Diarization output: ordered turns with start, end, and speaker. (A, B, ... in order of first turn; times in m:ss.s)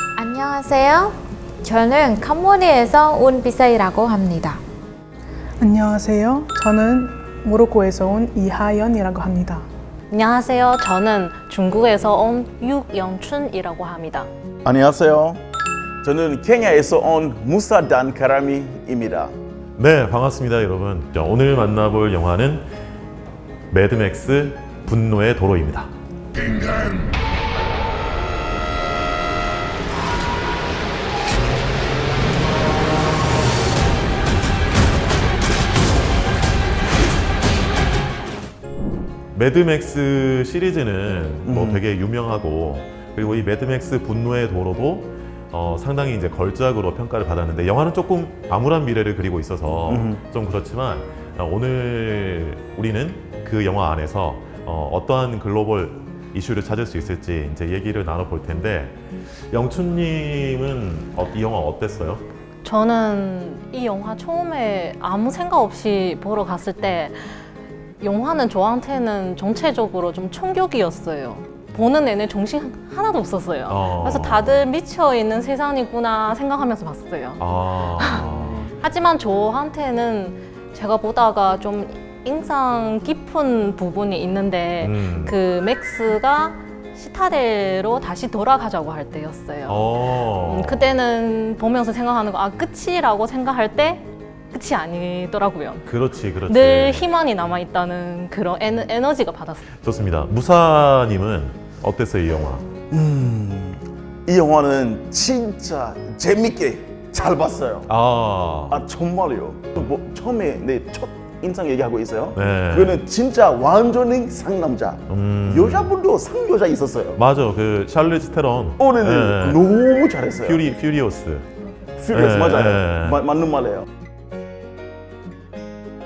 0:00.2-0:04.6 A
0:05.6-0:09.6 B
0:10.1-0:14.3 C
0:14.6-0:15.4 D
0:16.0-0:19.3 D
0:19.8-0:22.7 E
0:23.7-0:25.9 E
0:39.3-0:59.0 E
0:41.4-0:41.8 D
0:49.9-0:50.2 D
0:59.5-1:02.2 E
1:02.6-1:07.4 C
1:08.0-1:35.9 C
1:13.7-1:14.7 E
1:17.4-1:18.7 E
1:24.8-1:25.4 E
1:29.7-1:31.0 E
1:35.8-1:37.1 E
1:36.5-1:39.6 C
1:39.8-1:42.6 E
1:42.9-1:47.9 D
1:47.9-1:48.8 E
1:48.7-1:57.2 D
1:52.3-1:53.0 E
1:55.1-1:55.9 E
1:57.1-1:59.6 E
1:58.8-2:00.6 D
2:00.4-2:01.4 E
2:02.0-2:03.8 D
2:02.1-2:03.2 E